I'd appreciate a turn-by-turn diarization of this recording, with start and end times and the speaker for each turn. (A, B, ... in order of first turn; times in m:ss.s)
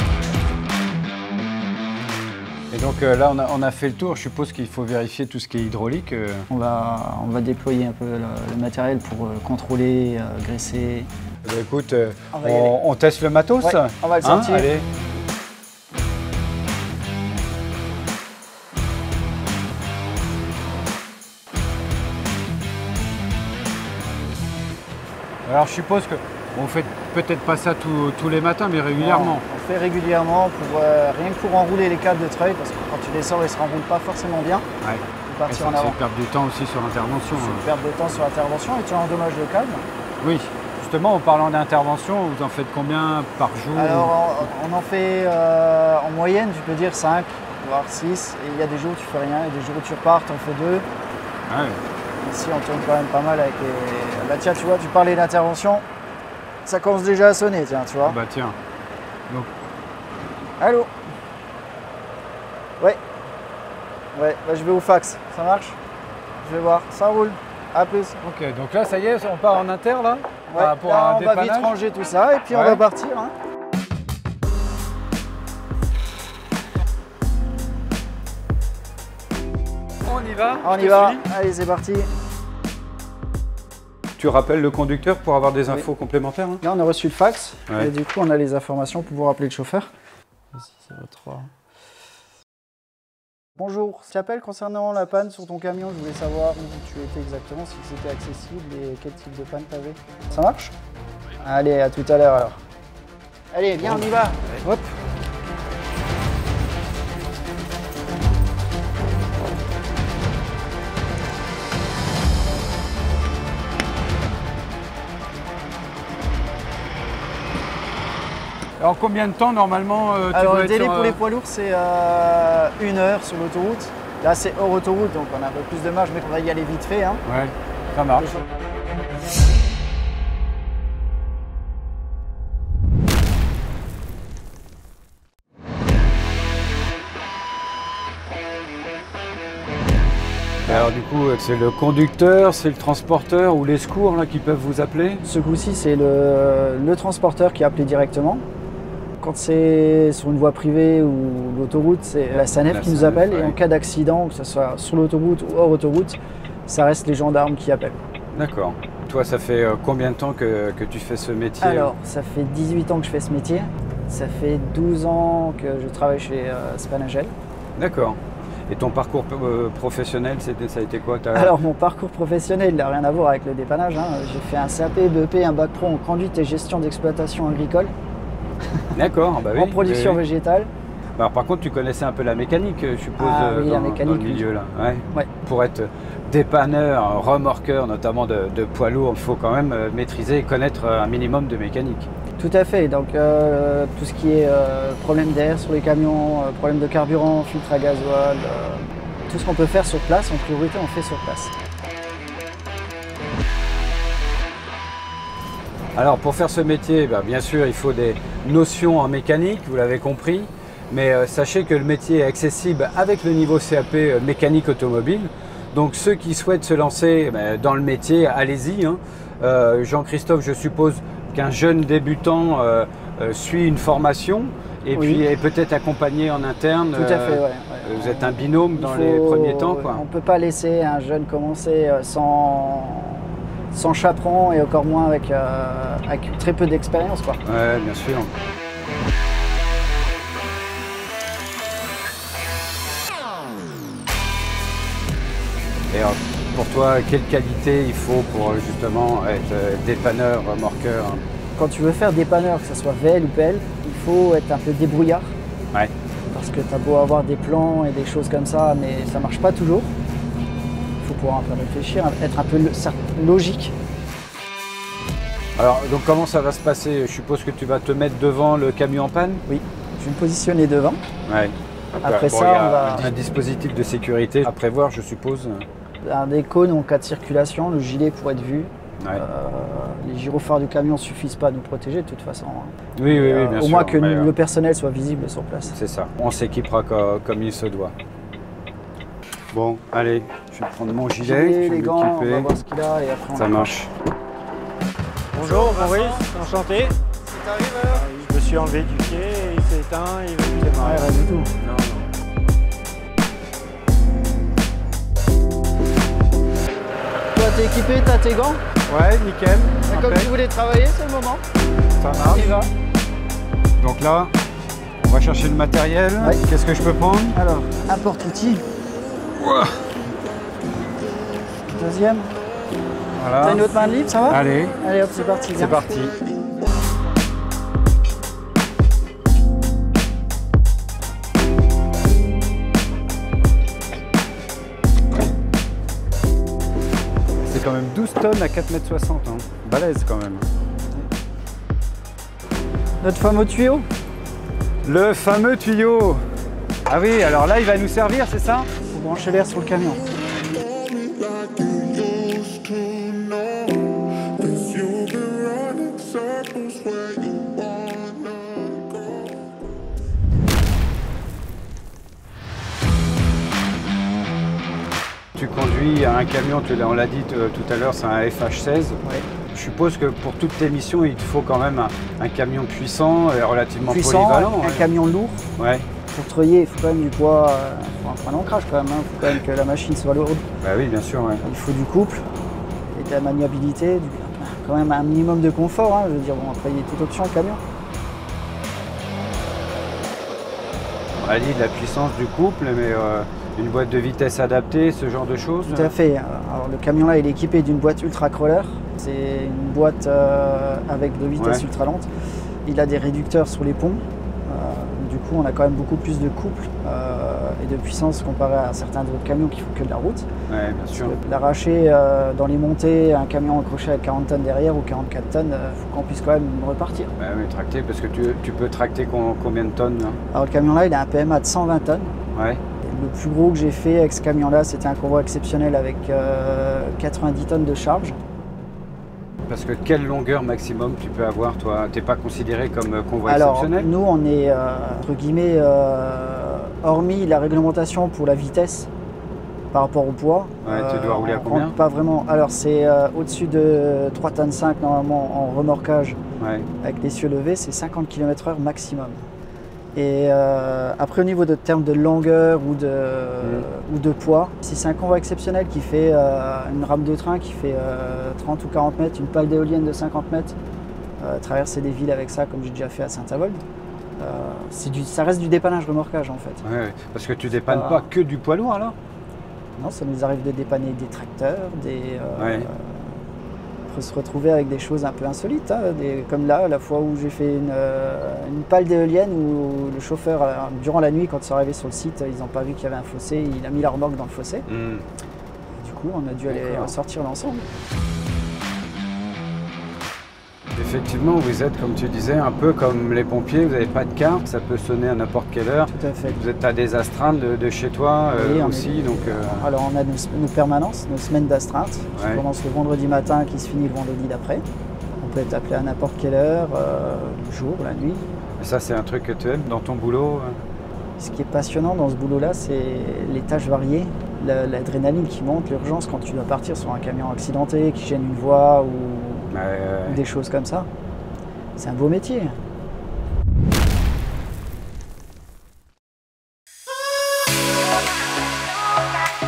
0:02.7-0:06.5 A
0:06.5-0:11.1 B
0:11.4-0:14.9 A
0:12.3-0:12.8 B
0:13.6-0:14.7 B
0:25.4-0:29.4 A
0:29.0-0:34.7 B
0:34.8-0:37.7 A
0:35.3-0:36.0 B
0:37.4-0:39.9 B
0:40.2-0:44.1 A
0:43.8-0:50.8 B
0:51.5-0:51.8 A
0:52.2-0:55.8 B
0:56.7-0:58.2 B
0:58.0-0:58.6 A
1:00.6-1:00.9 B
1:04.1-1:05.8 B
1:06.4-1:08.2 B
1:08.2-1:11.7 A
1:10.5-1:13.3 B
1:12.5-1:12.8 A
1:20.0-1:21.2 A
1:20.6-1:22.1 B
1:24.2-1:26.6 A
1:26.6-1:29.9 B
1:30.5-1:31.5 B
1:33.6-1:40.7 B
1:41.4-1:42.6 B
1:43.5-1:44.5 B
1:44.6-1:44.9 A
1:58.8-2:01.2 A
2:00.3-2:07.2 B
2:07.3-2:08.3 A
2:20.7-2:25.2 A
2:25.2-2:28.4 B
2:29.2-2:38.0 B
2:32.3-2:33.6 A
2:38.3-2:41.9 A
2:41.6-2:47.3 B
2:47.8-2:51.5 A
2:51.4-2:57.9 B
2:58.9-3:00.2 A
2:59.5-3:00.7 B
3:01.2-3:12.1 A
3:03.2-3:04.5 B
3:12.4-3:21.5 B
3:26.0-3:50.0 A
3:45.0-3:45.2 B
3:47.0-3:57.4 B
3:57.4-3:58.3 A
4:05.9-4:11.2 A
4:11.6-4:15.4 B
4:16.3-4:19.9 B
4:21.0-4:23.7 B
4:25.6-4:29.4 A
4:29.5-4:31.0 B
4:31.3-4:35.7 A
4:32.0-4:33.1 B
4:36.0-4:45.8 B
4:43.0-4:44.3 A
4:45.7-4:47.9 A
4:49.5-4:52.5 A
4:51.2-4:53.7 B
4:53.4-4:53.9 A
4:55.3-4:57.0 C
4:55.4-4:56.3 B
4:57.3-4:58.1 B
4:57.9-5:01.1 C
5:00.8-5:01.5 B
5:01.6-5:02.1 A
5:07.3-5:08.6 B
5:08.9-5:10.3 A
5:09.9-5:11.4 B
5:12.0-5:12.5 A
5:12.1-5:12.7 B
5:13.8-5:14.3 A
5:15.0-5:17.4 A
5:17.3-5:18.6 B
5:19.4-5:19.9 A
5:21.7-5:22.3 B
5:23.1-5:23.7 A
5:23.4-5:25.9 B
5:24.3-5:24.8 A
5:25.6-5:26.2 A
5:37.4-5:40.5 A
5:43.0-5:43.9 B
5:44.8-5:46.2 A
5:46.9-5:48.7 A
5:48.9-5:50.1 B
5:51.3-5:53.7 A
5:54.4-5:58.1 A
6:05.4-6:14.9 A
6:13.9-6:15.4 B
6:15.6-6:15.9 A
6:16.1-6:20.4 B
6:20.6-6:21.4 A
6:21.4-6:22.2 B
6:22.9-6:27.6 B
6:31.2-6:35.9 A
6:35.7-6:42.1 B
6:41.4-6:41.6 A
6:42.6-6:50.3 B
6:50.5-6:51.2 A
6:51.0-6:57.1 B
6:57.2-7:00.2 A
7:00.3-7:02.2 B
7:02.3-7:02.6 A
7:02.8-7:08.2 B
7:09.5-7:13.9 A
7:13.3-7:18.9 B
7:19.7-7:26.2 B
7:20.6-7:21.7 A
7:26.4-7:26.7 A
7:26.8-7:29.2 B
7:30.0-7:40.6 B
7:33.4-7:33.7 A
7:41.2-7:43.6 B
7:44.2-7:46.6 B
7:46.6-7:49.0 A
7:47.7-7:48.1 B
7:49.8-7:53.2 B
7:52.4-7:52.7 A
7:53.9-8:04.7 B
8:04.7-8:05.0 A
8:05.8-8:07.7 B
8:06.5-8:07.0 A
8:10.7-8:19.7 A
8:15.9-8:16.4 B
8:18.3-8:24.6 B
8:22.2-8:22.4 A
8:25.2-8:28.3 B
8:28.6-8:30.6 A
8:31.2-8:39.5 B
8:39.5-8:40.2 A
8:40.1-8:40.9 B
8:41.8-8:42.5 B